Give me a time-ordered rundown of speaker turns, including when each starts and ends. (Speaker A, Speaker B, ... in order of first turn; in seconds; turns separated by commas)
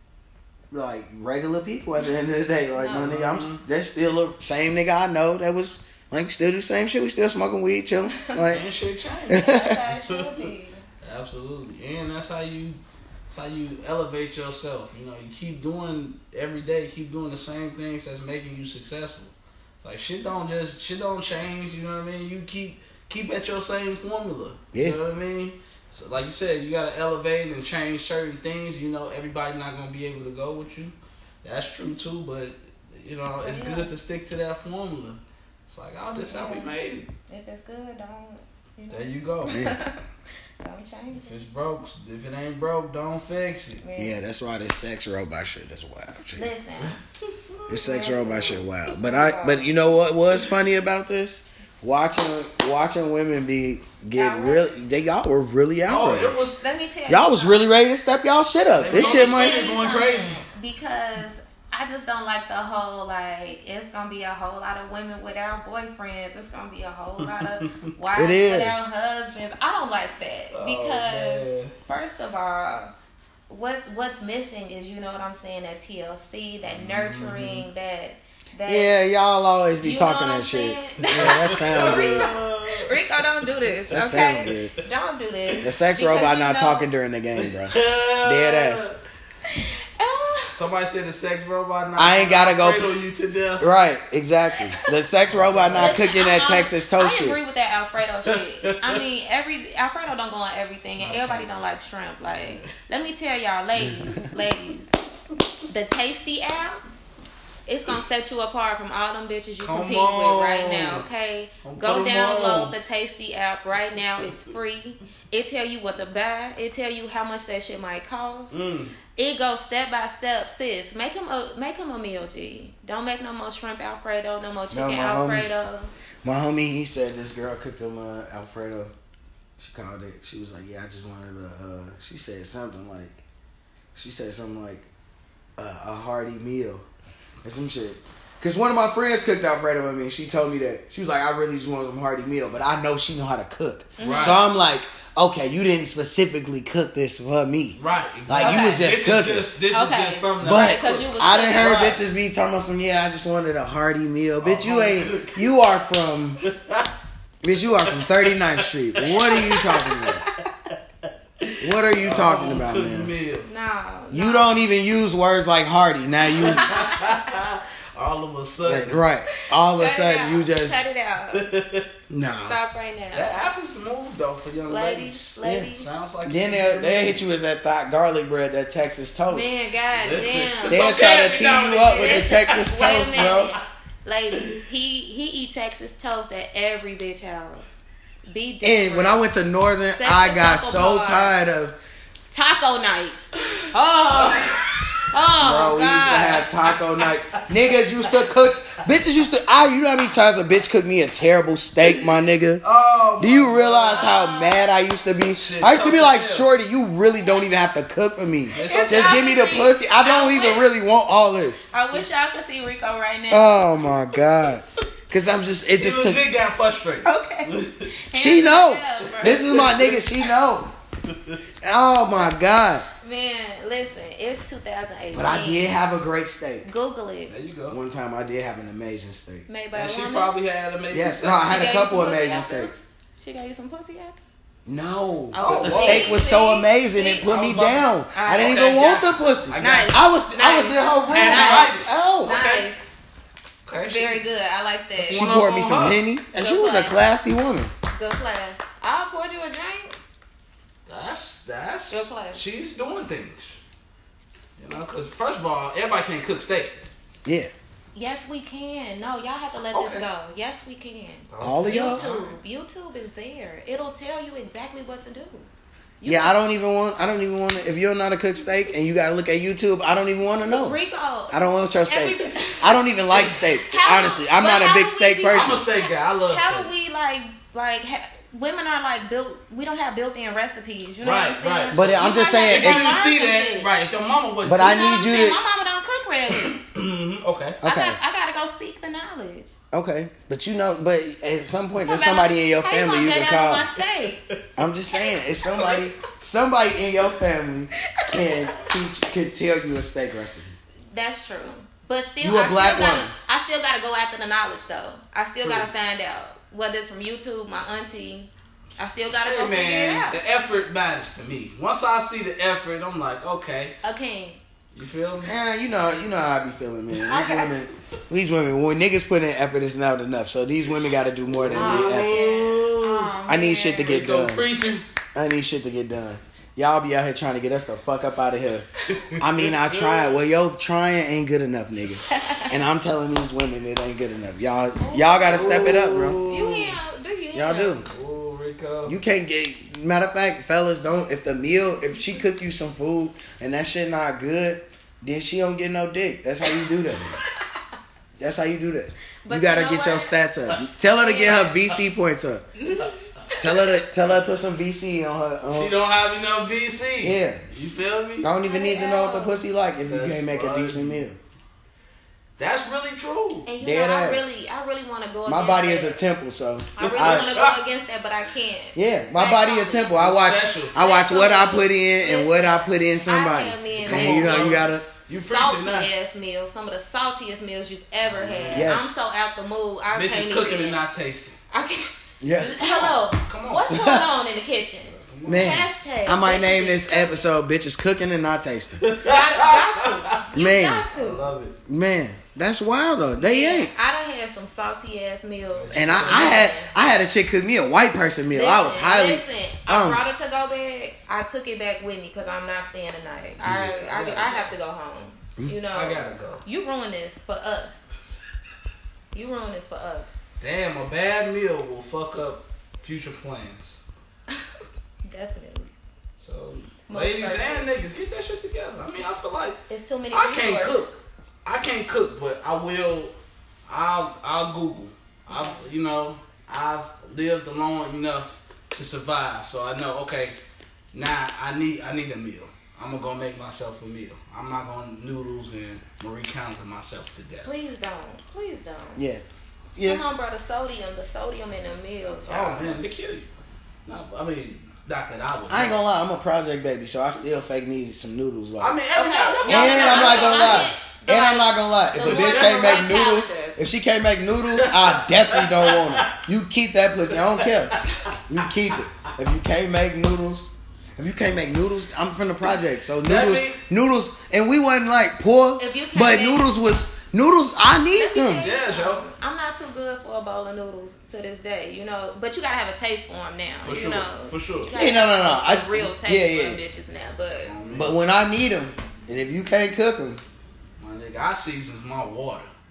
Speaker A: 0.7-8.7, Speaker B: 2.8-3.1, Speaker C: 2.9-3.6, Speaker C: 8.5-10.5, Speaker A: 9.3-9.8, Speaker B: 9.3-10.8, Speaker C: 11.0-37.1, Speaker A: 24.7-25.0, Speaker B: 33.4-33.9, Speaker B: 36.3-36.7, Speaker B: 37.3-40.0, Speaker C: 38.9-39.6, Speaker A: 39.5-39.8, Speaker B: 40.6-41.4, Speaker C: 41.1-43.8, Speaker B: 43.8-44.2, Speaker A: 44.0-46.5, Speaker B: 46.3-49.7, Speaker C: 46.8-47.6, Speaker A: 47.7-56.4, Speaker B: 54.1-54.6, Speaker C: 55.9-56.6, Speaker B: 56.6-57.7, Speaker A: 57.1-59.8, Speaker C: 58.7-60.4, Speaker B: 58.9-72.9, Speaker C: 67.2-67.9, Speaker A: 68.1-68.9, Speaker C: 70.5-71.7, Speaker B: 73.5-79.0, Speaker C: 76.7-77.7, Speaker A: 78.7-82.3, Speaker B: 79.8-86.9, Speaker C: 81.0-83.0, Speaker C: 83.7-84.7, Speaker A: 83.9-84.7, Speaker A: 85.6-88.9, Speaker C: 87.4-89.0, Speaker B: 89.5-90.5, Speaker C: 90.5-93.7, Speaker A: 92.0-92.9, Speaker A: 93.6-97.4, Speaker C: 95.3-96.0, Speaker B: 95.7-104.9, Speaker C: 98.2-99.0, Speaker C: 101.0-101.5, Speaker C: 102.3-102.7, Speaker B: 105.7-106.8, Speaker B: 107.7-118.5, Speaker C: 109.6-111.0, Speaker C: 111.6-112.7, Speaker C: 118.5-119.0, Speaker B: 119.2-125.9, Speaker A: 124.7-125.5, Speaker A: 126.2-128.9, Speaker A: 129.6-133.2, Speaker A: 133.9-134.9, Speaker A: 135.6-136.8, Speaker A: 137.4-149.5, Speaker B: 144.0-144.4, Speaker C: 144.0-144.4, Speaker C: 147.8-152.0, Speaker B: 148.4-148.8, Speaker B: 149.7-151.8, Speaker A: 150.4-156.4, Speaker C: 154.4-155.5, Speaker C: 156.4-156.9, Speaker A: 157.4-160.2, Speaker C: 157.8-160.1, Speaker B: 159.4-160.4, Speaker C: 161.4-163.5, Speaker A: 161.6-163.1, Speaker B: 163.5-164.6, Speaker A: 164.1-166.7, Speaker C: 166.3-169.0, Speaker B: 166.5-167.1, Speaker A: 168.6-170.9, Speaker B: 169.4-171.4, Speaker C: 171.3-171.9, Speaker A: 172.1-172.6, Speaker B: 172.3-173.3, Speaker C: 173.1-177.2, Speaker B: 174.7-176.0, Speaker A: 175.4-175.7, Speaker A: 176.2-179.5, Speaker B: 179.3-187.8, Speaker C: 179.9-183.6, Speaker A: 180.7-183.5, Speaker B: 188.3-189.2, Speaker A: 188.6-191.8, Speaker B: 189.9-191.4, Speaker B: 192.3-196.5, Speaker C: 193.6-195.1, Speaker A: 195.4-202.6, Speaker C: 196.6-198.3, Speaker C: 201.8-202.1, Speaker C: 202.6-204.1, Speaker A: 203.2-211.6, Speaker B: 203.9-204.7, Speaker C: 205.3-206.5, Speaker C: 208.5-209.4, Speaker B: 208.6-210.7, Speaker B: 211.7-213.7, Speaker A: 213.3-216.2, Speaker C: 215.8-217.9, Speaker B: 217.1-219.8, Speaker A: 218.1-220.7, Speaker C: 219.0-220.1, Speaker C: 221.1-221.4, Speaker A: 221.6-222.9, Speaker B: 223.0-225.8, Speaker A: 225.1-226.7, Speaker B: 226.7-227.3, Speaker C: 227.3-227.8, Speaker A: 227.7-229.5, Speaker B: 229.5-230.3, Speaker C: 229.7-231.7, Speaker A: 230.9-232.8, Speaker B: 231.3-234.2, Speaker A: 234.7-242.4, Speaker B: 235.3-237.4, Speaker C: 235.4-236.2, Speaker C: 237.3-239.9, Speaker B: 238.2-238.7, Speaker B: 239.6-242.8, Speaker C: 241.1-242.7, Speaker C: 243.7-244.2, Speaker B: 243.9-245.3, Speaker C: 245.0-246.0, Speaker A: 245.0-247.7, Speaker B: 246.3-247.0, Speaker B: 247.9-250.0, Speaker C: 250.9-253.6, Speaker B: 251.9-252.4, Speaker C: 254.6-256.8, Speaker A: 257.2-257.5, Speaker B: 257.9-265.5, Speaker C: 259.8-260.0, Speaker C: 261.3-262.4, Speaker A: 261.4-262.1, Speaker B: 266.0-266.4, Speaker A: 266.0-270.8, Speaker B: 270.4-272.8, Speaker A: 271.3-275.6, Speaker C: 273.1-273.4, Speaker B: 273.6-283.7, Speaker C: 275.3-276.7, Speaker C: 281.0-281.8, Speaker A: 281.7-282.9, Speaker C: 282.4-284.8, Speaker A: 284.4-285.4, Speaker B: 284.6-286.6, Speaker C: 286.3-287.6, Speaker A: 287.6-288.0, Speaker B: 287.6-289.5, Speaker A: 289.7-293.7, Speaker B: 291.8-294.2, Speaker A: 294.6-300.6, Speaker B: 297.9-298.7, Speaker B: 300.9-310.2, Speaker A: 302.2-303.1, Speaker C: 305.4-305.7, Speaker C: 309.2-313.8, Speaker B: 313.8-314.4, Speaker C: 314.7-315.3, Speaker A: 315.2-322.2, Speaker C: 317.0-317.5, Speaker C: 321.3-323.1, Speaker B: 321.5-324.0, Speaker A: 323.3-324.5, Speaker C: 323.8-324.9, Speaker A: 325.1-328.7, Speaker C: 328.9-330.2, Speaker A: 329.2-336.2, Speaker B: 332.1-332.5, Speaker B: 334.8-335.7, Speaker C: 335.2-336.8, Speaker B: 336.3-337.8, Speaker A: 337.3-337.9, Speaker C: 337.9-339.0, Speaker A: 338.9-347.2, Speaker A: 348.2-352.5, Speaker B: 349.2-350.1, Speaker B: 350.9-351.6, Speaker B: 352.7-353.7, Speaker A: 353.4-355.7, Speaker C: 355.5-358.3, Speaker A: 357.0-357.4, Speaker A: 358.2-361.2, Speaker B: 358.4-359.4, Speaker C: 359.9-361.0, Speaker C: 362.4-363.5, Speaker B: 363.5-366.0, Speaker A: 363.6-364.3, Speaker A: 365.3-367.3, Speaker B: 366.8-370.0, Speaker C: 366.8-367.6, Speaker A: 368.8-374.9, Speaker C: 369.9-370.8, Speaker B: 370.8-380.8, Speaker C: 373.8-375.9, Speaker C: 378.0-378.7, Speaker A: 378.5-378.9, Speaker C: 379.9-381.4, Speaker B: 381.5-387.3, Speaker A: 382.2-382.6, Speaker C: 382.6-383.8, Speaker A: 383.7-384.1, Speaker C: 384.9-385.6, Speaker A: 385.2-388.8, Speaker C: 388.8-390.3, Speaker B: 389.0-391.3, Speaker A: 390.3-390.9, Speaker C: 390.9-391.6, Speaker A: 391.7-393.7, Speaker B: 393.2-396.7, Speaker C: 395.5-396.5, Speaker A: 395.7-400.0, Speaker B: 398.3-407.7, Speaker C: 403.4-404.5, Speaker A: 403.4-403.7, Speaker C: 405.7-406.4, Speaker B: 409.1-410.1, Speaker C: 410.4-413.8, Speaker B: 415.1-415.7, Speaker C: 416.2-419.6, Speaker B: 416.9-417.7, Speaker B: 419.7-420.8, Speaker C: 420.1-423.1, Speaker C: 423.7-430.4, Speaker B: 425.3-425.7, Speaker C: 430.9-437.5, Speaker B: 437.4-439.0, Speaker A: 439.0-439.2, Speaker A: 439.8-440.0, Speaker B: 439.8-442.8, Speaker C: 442.3-443.3, Speaker C: 443.9-445.8, Speaker A: 445.5-448.8, Speaker C: 448.6-450.7, Speaker B: 448.9-453.6, Speaker A: 449.4-468.5, Speaker C: 452.0-452.8, Speaker C: 454.6-456.1, Speaker C: 457.2-458.1, Speaker C: 463.0-463.6, Speaker B: 465.6-466.5, Speaker B: 467.9-477.6, Speaker C: 468.4-469.0, Speaker C: 473.6-474.7, Speaker A: 474.8-476.6, Speaker C: 477.4-478.0, Speaker A: 477.7-480.2, Speaker C: 480.8-482.5